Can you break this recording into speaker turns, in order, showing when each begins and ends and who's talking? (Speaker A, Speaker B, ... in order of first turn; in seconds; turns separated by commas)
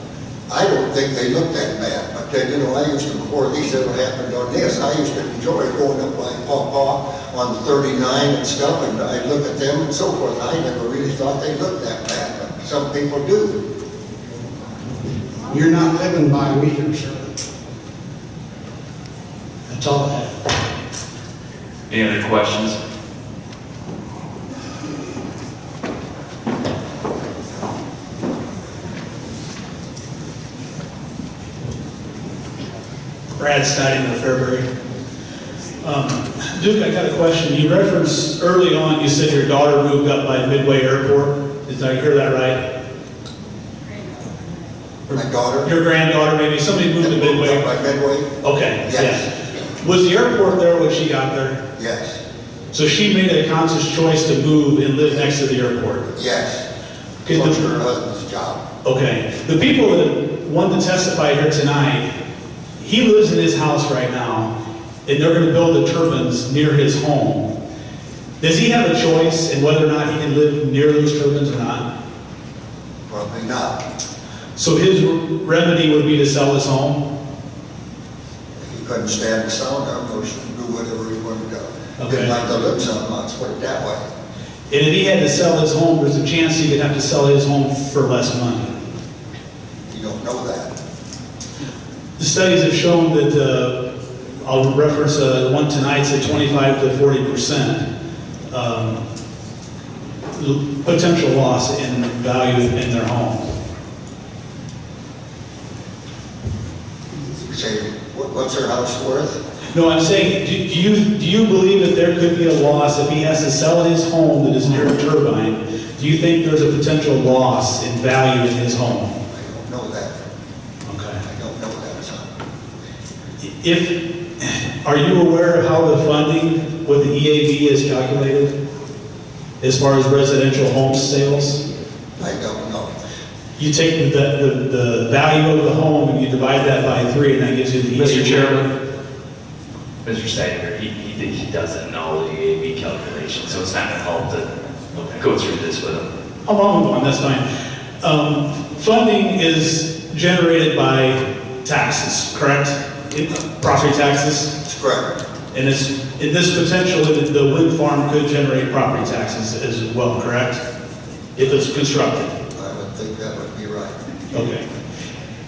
Speaker A: 0.5-13.6, Speaker B: 15.5-17.3, Speaker B: 19.7-20.4, Speaker C: 21.9-22.8, Speaker D: 33.4-34.7, Speaker D: 35.8-42.7, Speaker A: 45.1-45.7, Speaker D: 45.1-47.7, Speaker A: 47.0-48.3, Speaker D: 48.4-49.3, Speaker A: 48.8-49.2, Speaker D: 49.8-51.6, Speaker A: 51.8-52.2, Speaker D: 52.7-56.1, Speaker A: 56.1-56.7, Speaker D: 57.2-57.7, Speaker A: 57.3-58.6, Speaker D: 58.8-62.1, Speaker D: 62.8-64.5, Speaker D: 65.1-67.5, Speaker D: 68.4-71.9, Speaker A: 73.1-73.8, Speaker D: 74.6-77.0, Speaker A: 78.6-84.0, Speaker D: 82.0-82.3, Speaker D: 84.7-88.8, Speaker A: 89.9-90.7, Speaker D: 92.2-93.8, Speaker D: 94.4-97.8, Speaker D: 98.5-99.0, Speaker D: 100.3-103.5, Speaker A: 107.5-109.4, Speaker D: 109.7-119.2, Speaker A: 119.3-120.2, Speaker D: 120.9-121.2, Speaker A: 121.2-122.3, Speaker D: 123.4-128.6, Speaker D: 129.6-131.6, Speaker A: 132.2-132.9, Speaker D: 133.6-138.6, Speaker C: 137.9-138.7, Speaker C: 140.0-146.1, Speaker D: 146.4-147.5, Speaker D: 148.0-154.5, Speaker A: 154.6-155.1, Speaker D: 155.5-160.6, Speaker D: 161.4-162.3, Speaker A: 162.6-164.0, Speaker D: 164.3-164.7